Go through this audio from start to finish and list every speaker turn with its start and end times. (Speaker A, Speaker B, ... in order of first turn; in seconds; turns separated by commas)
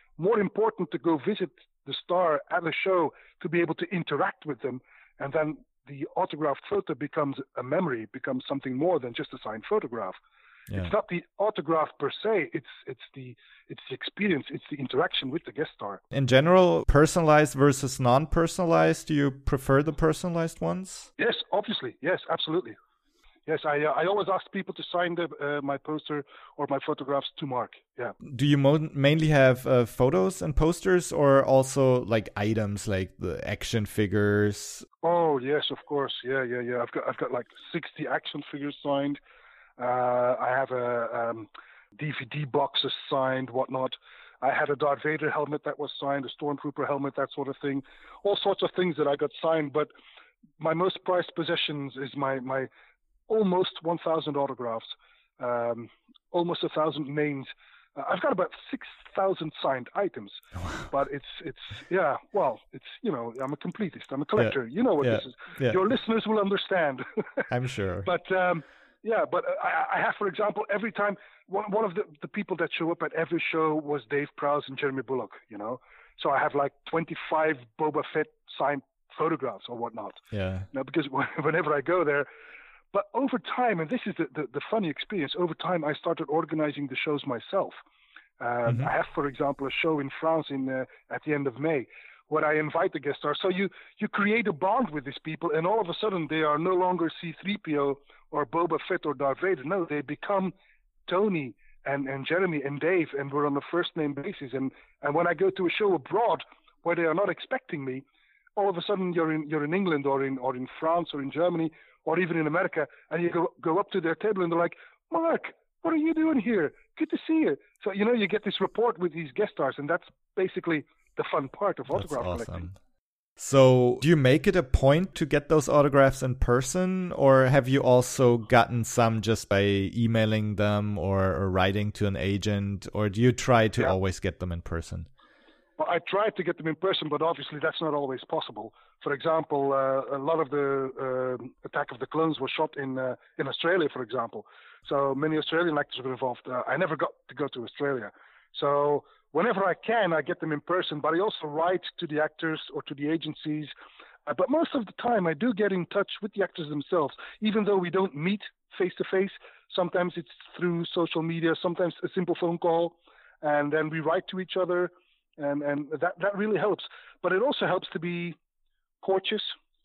Speaker A: 0.2-10.2, Speaker A: 10.7-16.0, Speaker B: 16.1-21.1, Speaker A: 21.2-22.8, Speaker A: 23.5-28.2, Speaker B: 28.2-34.9, Speaker A: 35.0-39.2, Speaker A: 39.8-49.9, Speaker A: 50.6-52.7, Speaker A: 53.3-67.4, Speaker B: 60.6-60.9, Speaker B: 64.4-65.8, Speaker B: 67.5-68.1, Speaker A: 68.0-80.2, Speaker B: 80.3-80.7, Speaker A: 80.7-82.3, Speaker A: 82.9-87.8, Speaker A: 88.4-100.5, Speaker A: 101.1-108.0, Speaker A: 108.6-122.7, Speaker B: 121.9-122.8, Speaker B: 123.4-135.1, Speaker A: 135.8-153.7, Speaker A: 154.3-168.4, Speaker A: 169.0-169.6